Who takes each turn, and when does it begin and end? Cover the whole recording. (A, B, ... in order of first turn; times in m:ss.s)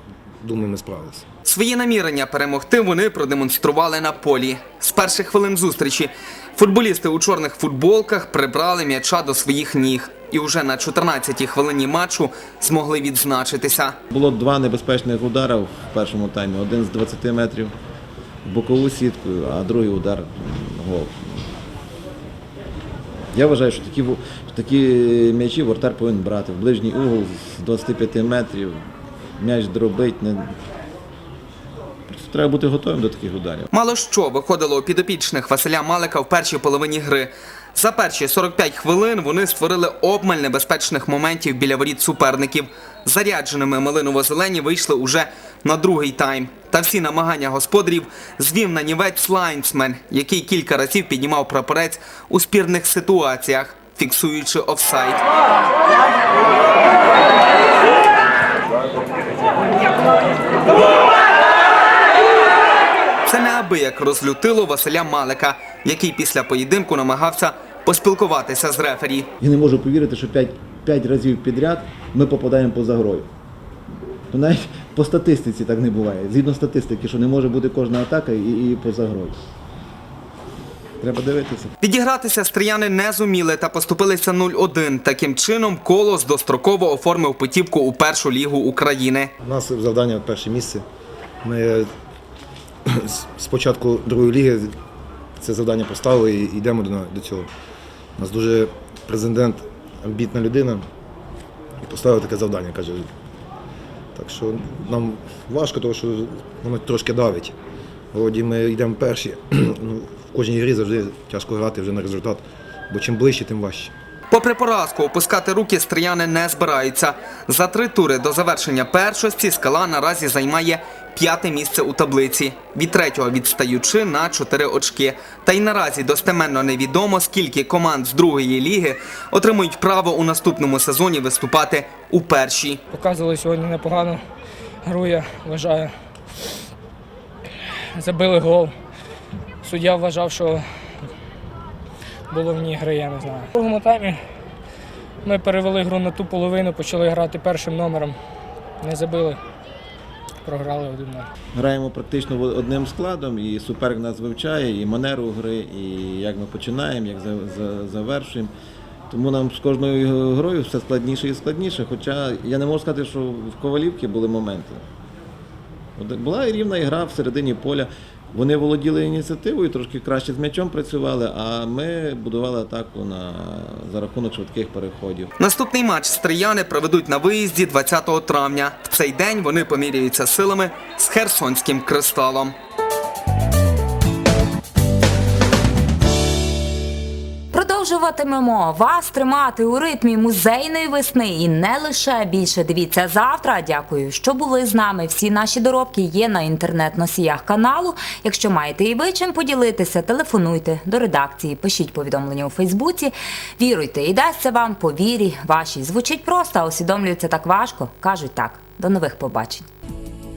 0:00.4-0:01.2 A
0:01.4-0:14.0 B
0:14.1-0:17.7 C
0:18.4-0:21.5 C
0:23.3-0:28.8 C
0:29.4-0:30.6 C
0:32.1-0:33.7 C
0:33.7-0:55.2 B
1:03.2-1:09.3 B
1:09.4-1:13.3 C
1:14.3-1:19.4 C
1:21.0-1:21.7 C
1:21.8-1:29.3 B
1:29.4-1:30.8 A
1:31.4-1:31.9 A
1:32.9-1:34.7 A
1:35.4-1:37.5 A
1:38.2-1:40.8 A
1:41.8-1:43.1 A
1:44.1-1:47.5 A
1:48.1-1:53.9 A
1:54.3-2:12.8 B
2:12.9-2:14.2 D
2:14.8-2:15.9 D
2:18.0-2:18.7 D
2:19.6-2:21.1 D
2:22.3-2:24.2 D
2:25.2-2:28.2 D
2:28.8-2:29.4 D
2:30.4-2:31.3 D
2:31.6-2:38.5 C
2:39.1-2:44.8 C
2:46.0-2:55.3 C
2:55.4-3:02.5 B
3:07.5-3:29.7 E